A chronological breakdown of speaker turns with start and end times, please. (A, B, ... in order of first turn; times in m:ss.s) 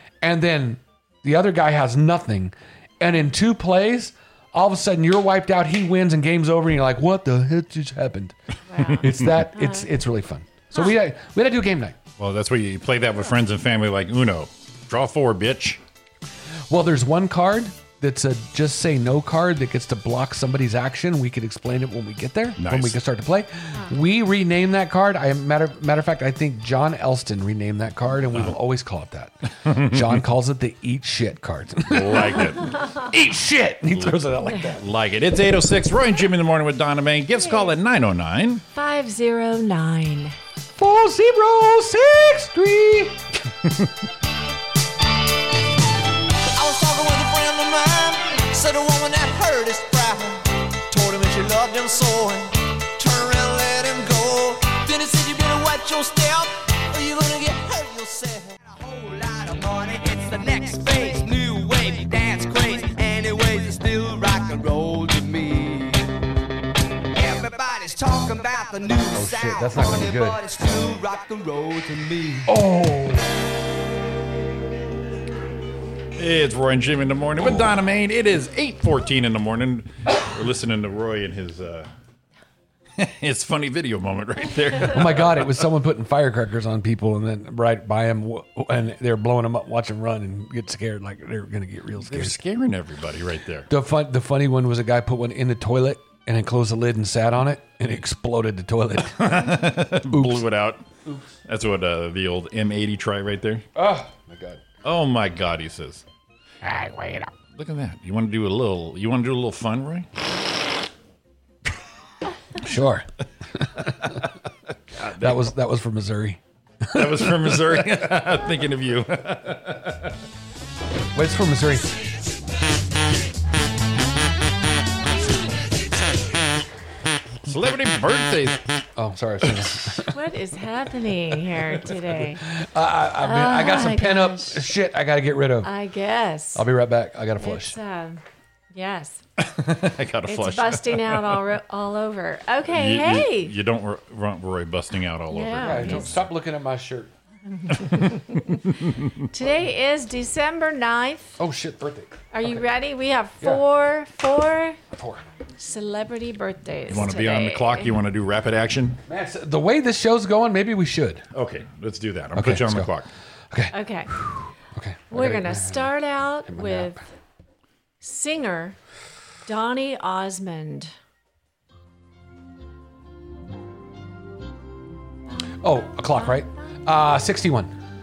0:00.2-0:08.3 A
0:08.7-0:09.9 B
0:08.9-0:12.0 A
0:09.1-0:09.4 C
0:12.2-0:15.8 C
0:16.7-0:34.8 A
0:22.6-0:23.0 C
0:28.3-0:28.6 C
0:29.6-0:30.2 C
0:31.9-0:32.8 C
0:33.9-0:38.6 C
0:37.3-0:37.7 B
0:38.7-0:40.4 B
0:40.8-0:43.2 A
0:46.5-1:06.1 D
1:07.1-1:12.5 D
1:09.1-1:10.4 A
1:12.5-1:13.2 A
1:16.2-1:21.9 C
1:23.0-1:25.6 C
1:24.9-1:32.4 A
1:32.0-1:33.7 C
1:33.7-1:40.5 A
1:39.1-1:40.8 C
1:41.4-1:43.7 C
1:43.7-1:44.6 A
1:44.8-1:46.0 C
1:46.6-1:47.3 A
1:47.5-1:50.1 C
1:52.6-1:53.0 A
1:53.6-1:54.2 A
1:54.9-1:55.5 C
1:55.2-1:58.0 A
1:56.9-2:00.2 C
2:01.1-2:01.9 A
2:07.4-2:08.6 C
2:09.0-2:10.1 A
2:10.1-2:12.4 B
2:12.4-2:15.7 A
2:13.2-2:14.7 B
2:15.6-2:16.6 B
2:16.5-2:17.8 A
2:17.4-2:18.2 B
2:18.7-2:19.2 B
2:19.4-2:21.4 C
2:20.2-2:23.5 B
2:22.7-2:26.2 C
2:25.3-2:26.1 B
2:25.6-2:27.1 A
2:27.5-2:28.5 B
2:27.8-2:29.2 C
2:29.3-2:31.4 B
2:31.4-2:32.6 A
2:32.3-2:34.8 B
2:34.9-2:35.2 A
2:35.6-2:37.9 B
2:36.9-2:39.0 C
2:39.0-2:41.2 A
2:41.3-2:43.1 C
2:42.3-2:42.9 A
2:43.5-2:45.9 A
2:43.7-2:44.1 B
2:45.1-2:47.0 B
2:46.4-2:47.0 A
2:48.0-2:48.8 B
2:49.4-2:50.9 B
2:55.6-2:57.7 A
2:56.1-2:56.5 B